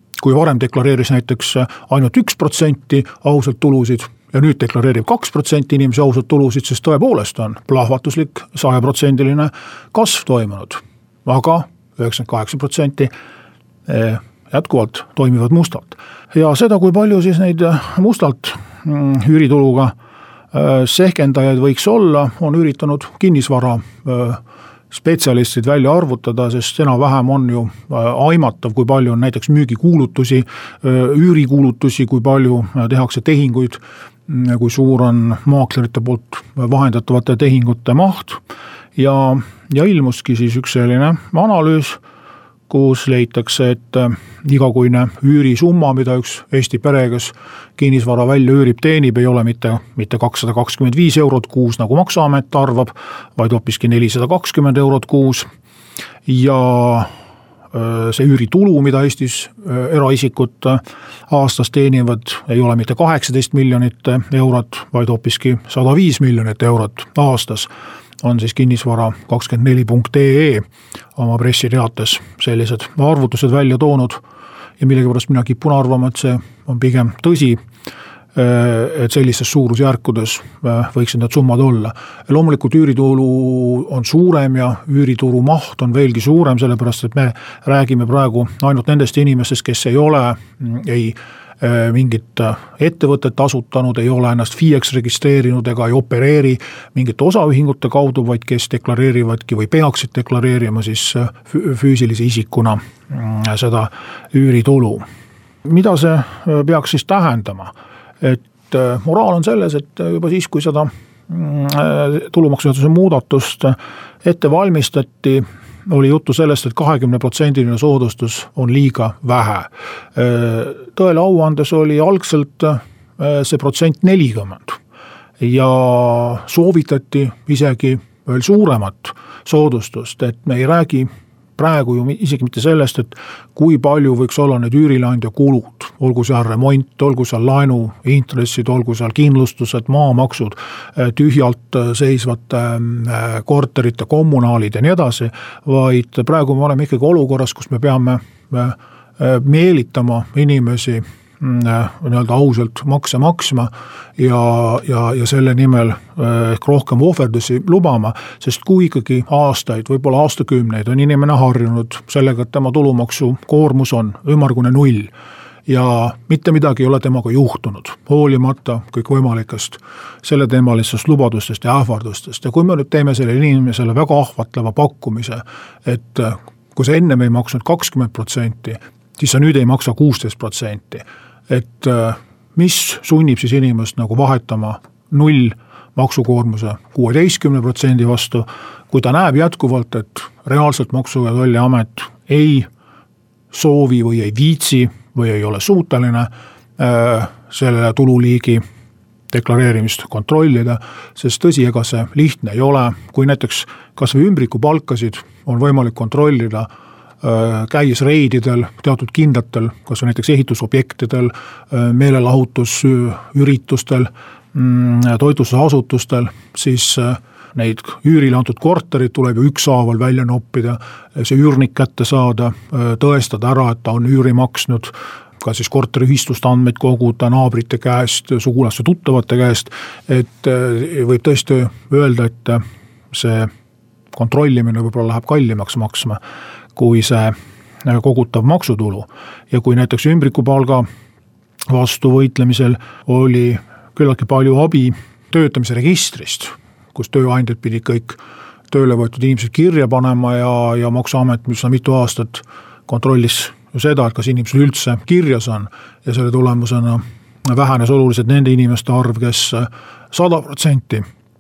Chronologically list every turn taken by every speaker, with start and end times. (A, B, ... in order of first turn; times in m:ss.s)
0:00.2-0:13.1 A
0:13.9-0:19.9 A
0:20.5-0:38.4 A
0:39.0-0:42.0 A
0:42.7-0:55.5 A
0:56.2-0:57.1 A
0:57.7-1:07.7 A
1:08.2-1:10.6 A
1:11.2-1:14.2 A
1:14.8-1:17.6 A
1:18.3-1:45.0 A
1:45.6-2:04.8 A
2:05.4-2:45.1 A
2:45.7-3:12.7 A
3:13.5-3:18.6 A
3:19.3-3:26.7 A
3:27.2-3:53.5 A
3:54.1-3:56.2 A
3:56.7-4:00.8 A
4:01.7-4:08.2 A
4:08.7-4:21.0 A